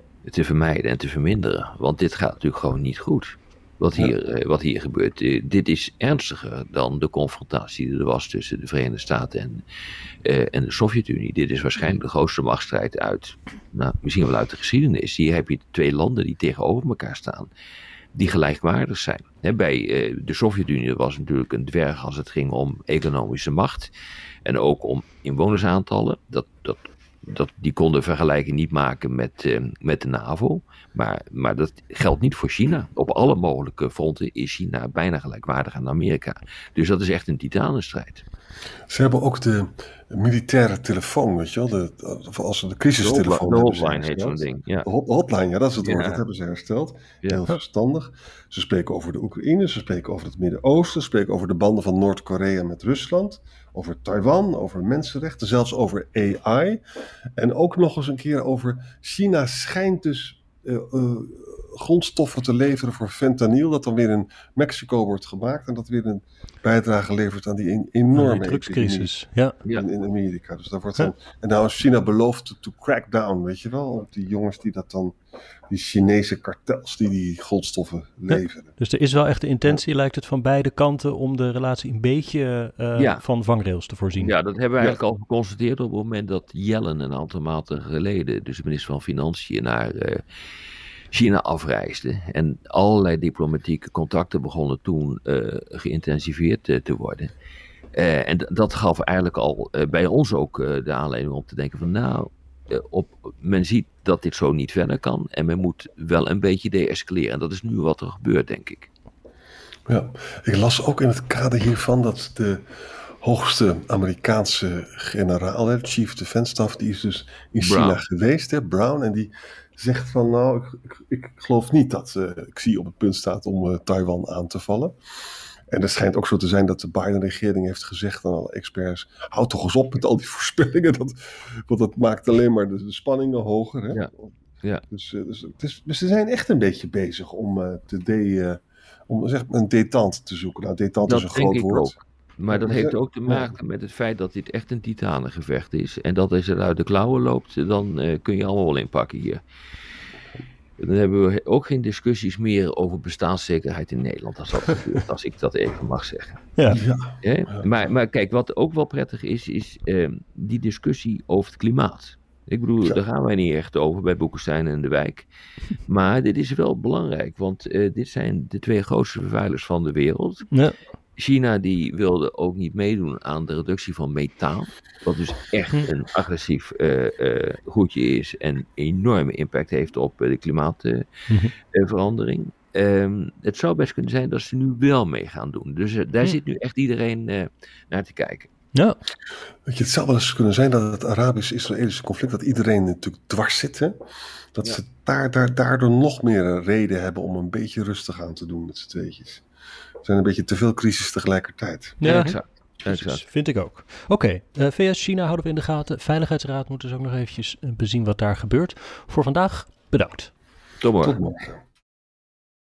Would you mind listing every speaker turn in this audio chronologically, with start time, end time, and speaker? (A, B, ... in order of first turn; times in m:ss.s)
0:00.2-0:09.6 A
0:10.2-0:17.5 A
0:18.1-0:23.9 A
0:24.4-0:38.2 A
0:38.9-0:56.8 B
0:43.0-0:44.9 A
0:45.8-0:46.2 A
0:57.4-1:09.2 B
1:08.1-1:09.6 C
1:09.7-1:15.2 B
1:15.7-1:18.7 B
1:18.8-1:24.3 C
1:23.0-1:23.2 A
1:24.2-1:30.2 A
1:31.1-1:37.3 A
1:37.9-1:48.9 A
1:49.9-1:52.6 B
1:53.2-2:05.0 B
1:57.6-1:58.0 A
2:05.7-2:14.3 B
2:14.9-2:22.0 B
2:21.0-2:29.4 A
2:22.5-2:23.5 B
2:30.8-2:36.5 A
2:36.7-2:37.7 B
2:37.2-2:45.3 A
2:45.9-2:50.5 A
2:50.5-2:50.8 C
2:51.2-3:01.1 A
3:01.7-3:08.5 A
3:09.7-3:14.0 B
3:14.5-3:19.4 B
3:20.0-3:22.0 B
3:22.0-3:22.4 C
3:22.0-3:23.2 A
3:22.9-3:30.3 C
3:30.8-3:31.2 A
3:31.0-3:31.6 B